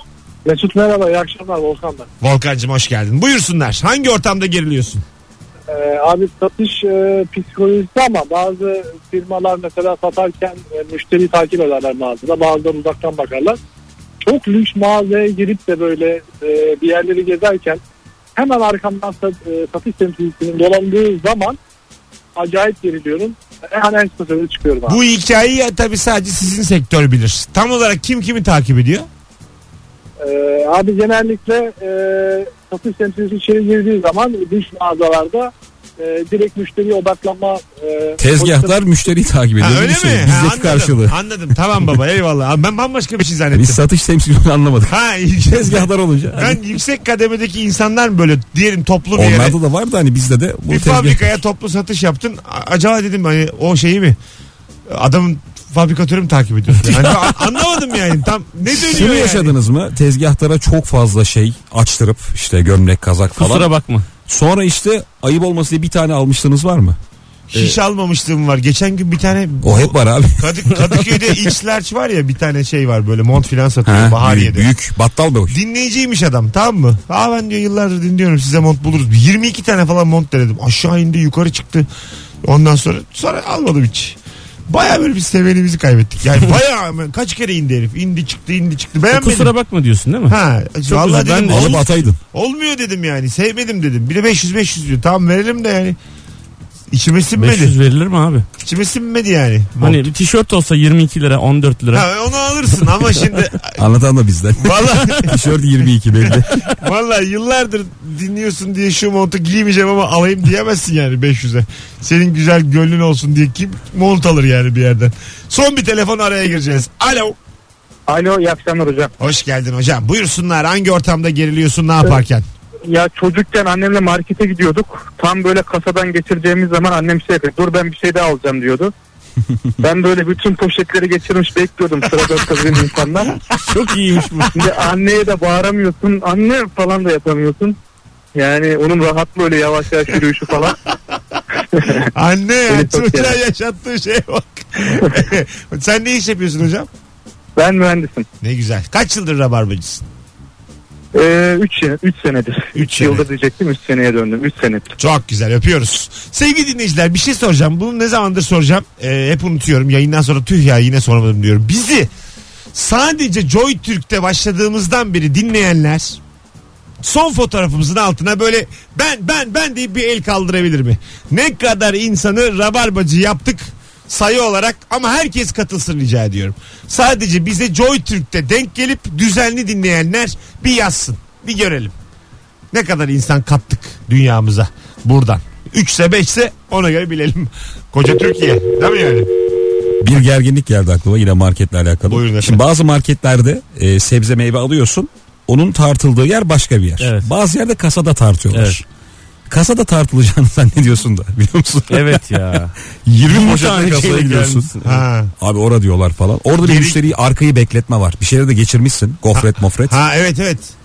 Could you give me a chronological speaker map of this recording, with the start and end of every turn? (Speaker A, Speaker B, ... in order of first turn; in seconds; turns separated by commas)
Speaker A: 0.5-2.1, Speaker B: 2.2-5.0, Speaker A: 5.7-13.6, Speaker A: 14.2-17.8, Speaker A: 18.4-21.6, Speaker A: 22.4-25.0, Speaker B: 24.9-29.1, Speaker A: 30.2-38.8, Speaker C: 38.2-41.2, Speaker B: 39.6-43.8, Speaker C: 43.5-45.0, Speaker B: 44.9-49.6, Speaker C: 45.5-46.6, Speaker C: 49.1-51.3, Speaker B: 50.7-54.2, Speaker B: 54.9-59.5, Speaker C: 58.8-63.7, Speaker D: 63.4-64.1, Speaker C: 64.3-67.0, Speaker B: 67.5-74.7, Speaker C: 69.6-70.8, Speaker C: 73.9-75.6, Speaker B: 75.5-81.9, Speaker B: 82.4-84.2, Speaker B: 84.7-89.5, Speaker D: 89.1-91.8, Speaker B: 90.3-96.0, Speaker C: 91.5-92.2, Speaker B: 96.9-97.8, Speaker D: 97.4-98.5, Speaker B: 98.6-100.1, Speaker D: 99.8-102.1, Speaker B: 101.9-103.8, Speaker C: 103.8-106.5, Speaker B: 104.6-105.4, Speaker B: 106.3-117.4, Speaker E: 118.1-119.1, Speaker B: 119.2-122.5, Speaker E: 122.9-128.9, Speaker E: 129.8-133.4, Speaker D: 133.7-134.6, Speaker E: 134.6-137.8, Speaker E: 138.3-140.8, Speaker E: 141.7-142.1, Speaker B: 142.1-146.9, Speaker E: 142.7-143.4, Speaker E: 147.6-148.3, Speaker B: 148.4-150.1, Speaker E: 151.1-154.9, Speaker B: 152.8-153.3, Speaker B: 155.0-162.1, Speaker B: 162.7-166.2, Speaker B: 167.0-181.9, Speaker B: 182.7-189.3, Speaker C: 190.0-198.8, Speaker B: 192.1-192.6, Speaker D: 197.0-197.3, Speaker D: 198.5-198.8, Speaker C: 199.5-202.2, Speaker D: 201.9-202.7, Speaker C: 203.1-204.7, Speaker D: 203.3-204.9, Speaker B: 204.8-205.3, Speaker C: 205.4-210.0, Speaker B: 206.6-207.0, Speaker B: 209.3-210.7